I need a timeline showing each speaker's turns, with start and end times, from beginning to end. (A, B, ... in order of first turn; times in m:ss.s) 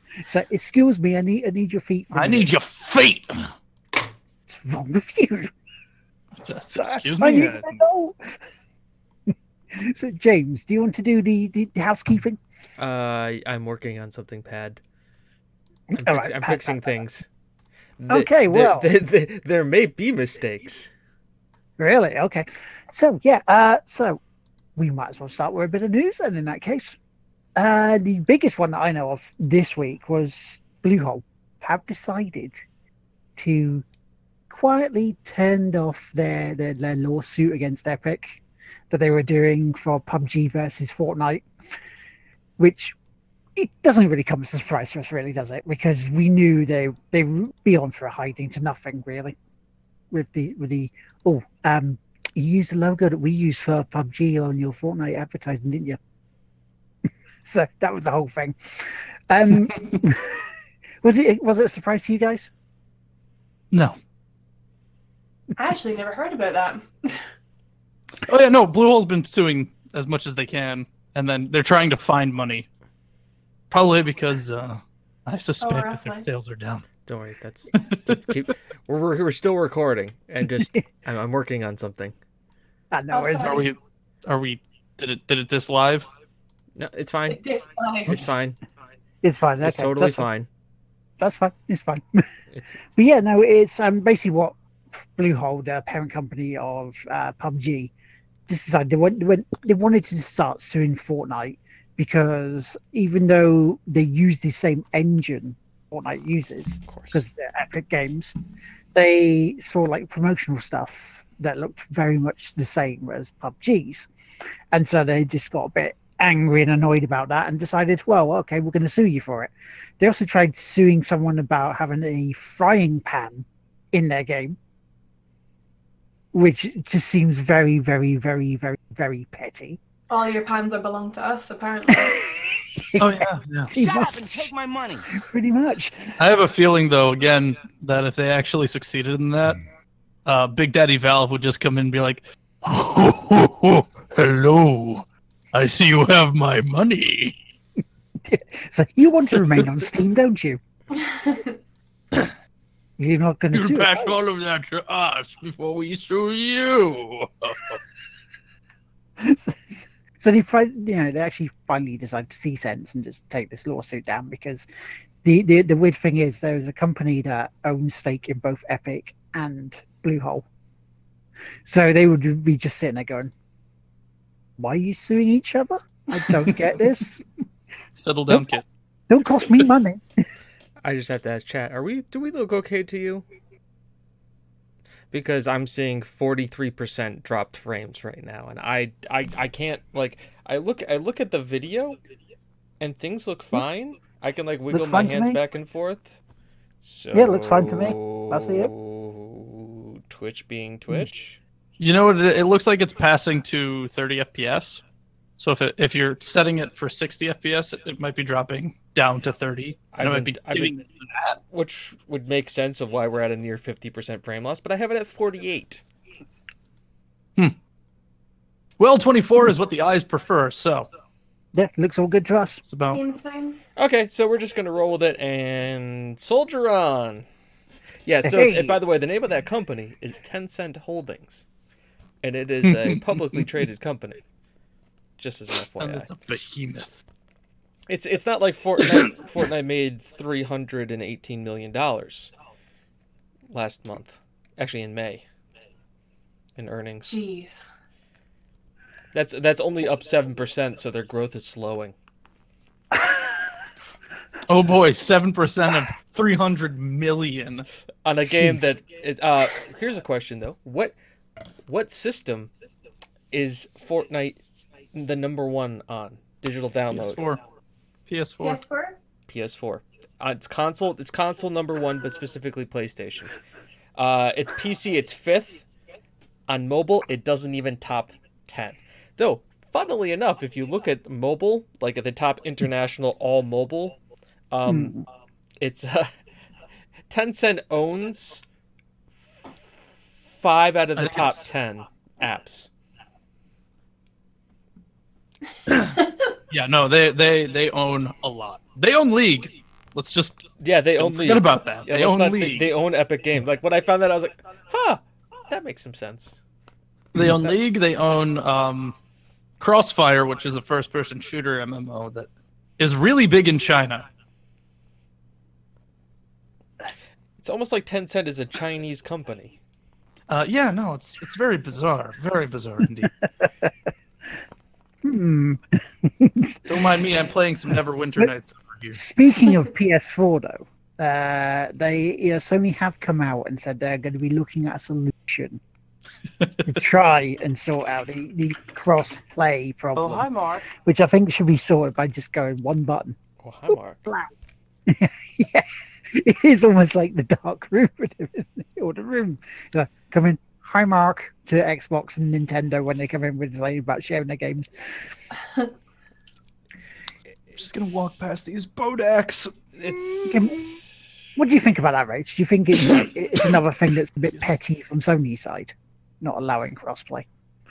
0:00.2-0:02.5 A
0:02.1-0:03.5 B
0:04.5-0:05.5 A
0:06.4-0:07.8 B
0:06.7-0:08.4 A
0:09.3-0:12.4 A
0:12.8-0:14.8 C
0:15.9-0:16.9 A
0:15.9-0:17.3 C
0:18.0-0:20.9 C
0:18.1-0:18.9 A
0:21.8-0:24.2 A
0:24.8-0:27.0 A
0:27.6-0:32.6 A
0:33.4-0:33.8 A
0:34.5-0:41.4 A
0:42.6-0:43.0 A
0:43.6-0:49.4 A
0:50.1-0:56.0 A
0:57.4-1:02.5 A
1:05.6-1:07.2 D
1:08.2-1:12.7 B
1:13.7-1:16.8 B
1:15.6-1:16.3 D
1:17.0-1:22.1 C
1:17.9-1:18.2 B
1:22.9-1:23.7 A
1:23.1-1:23.7 D
1:23.4-1:26.0 B
1:26.8-1:27.4 C
1:27.3-1:28.2 D
1:28.0-1:28.6 C
1:29.2-1:30.3 A
1:29.6-1:30.5 C
1:31.2-1:32.2 A
1:32.5-1:32.8 C
1:32.9-1:37.9 A
1:38.5-1:48.3 A
1:46.9-1:47.2 C
1:48.9-1:54.1 A
1:54.7-2:04.6 A
2:06.3-2:09.8 A
2:10.1-2:12.3 D
2:12.0-2:14.3 A
2:13.0-2:13.7 B
2:13.7-2:15.1 E
2:15.1-2:16.1 A
2:16.2-2:19.6 B
2:20.2-2:27.4 B
2:28.2-2:30.6 A
2:29.4-2:29.7 B
2:30.9-2:31.6 D
2:33.0-2:34.2 A
2:33.5-2:37.8 B
2:39.2-2:44.7 A
2:45.2-2:50.4 A
2:51.6-2:53.3 A
2:54.6-2:57.2 A
2:56.3-2:56.6 B
2:58.0-2:58.6 B
2:59.1-3:00.0 A
2:59.4-2:59.7 B
3:00.8-3:03.2 C
3:05.1-3:12.0 C
3:12.8-3:16.2 C
3:14.7-3:15.4 A
3:16.8-3:21.4 C
3:17.1-3:18.7 A
3:21.8-3:24.8 B
3:25.4-3:31.4 B
3:29.9-3:30.8 C
3:31.5-3:35.8 C
3:38.8-3:40.9 B
3:41.5-3:42.6 A
3:42.6-3:43.0 B
3:42.9-3:43.6 D
3:43.8-3:47.2 C
3:48.0-3:51.4 C
3:48.2-3:48.8 A
3:52.2-3:54.2 C
3:52.6-3:53.4 B
3:55.2-3:56.1 C
3:55.8-3:57.0 B
3:57.9-4:02.3 C
4:03.5-4:05.2 C
4:06.6-4:07.1 C
4:07.0-4:07.6 D
4:09.1-4:11.9 C
4:14.5-4:17.7 B
4:18.0-4:20.9 C
4:21.7-4:22.5 C
4:23.3-4:24.4 C
4:24.9-4:27.2 C
4:26.9-4:27.4 B
4:28.1-4:28.6 B
4:28.4-4:29.0 D
4:29.3-4:33.4 C
4:34.0-4:35.6 C
4:36.5-4:43.9 C
4:44.5-4:45.0 C
4:44.7-4:45.0 A
4:45.6-4:46.1 C
4:47.1-4:48.4 C
4:50.4-4:52.7 C
4:51.0-4:51.4 B
4:55.7-4:56.0 B
4:55.9-4:56.3 D
4:56.5-5:00.4 B
5:00.6-5:06.4 C
5:01.0-5:02.7 B
5:07.1-5:08.9 B
5:07.2-5:07.5 C
5:09.6-5:14.0 B
5:17.4-5:19.6 C
5:20.3-5:23.2 B
5:23.4-5:23.7 A
5:25.0-5:26.9 A
5:26.7-5:29.0 B
5:28.9-5:35.6 A
5:36.6-5:43.2 A
5:40.0-5:40.6 E
5:43.4-5:44.0 C
5:43.7-5:44.3 A
5:44.8-5:54.7 A
5:57.6-6:00.8 B
5:59.8-6:00.2 C
6:00.3-6:00.6 A
6:01.4-6:07.2 A
6:02.8-6:03.0 B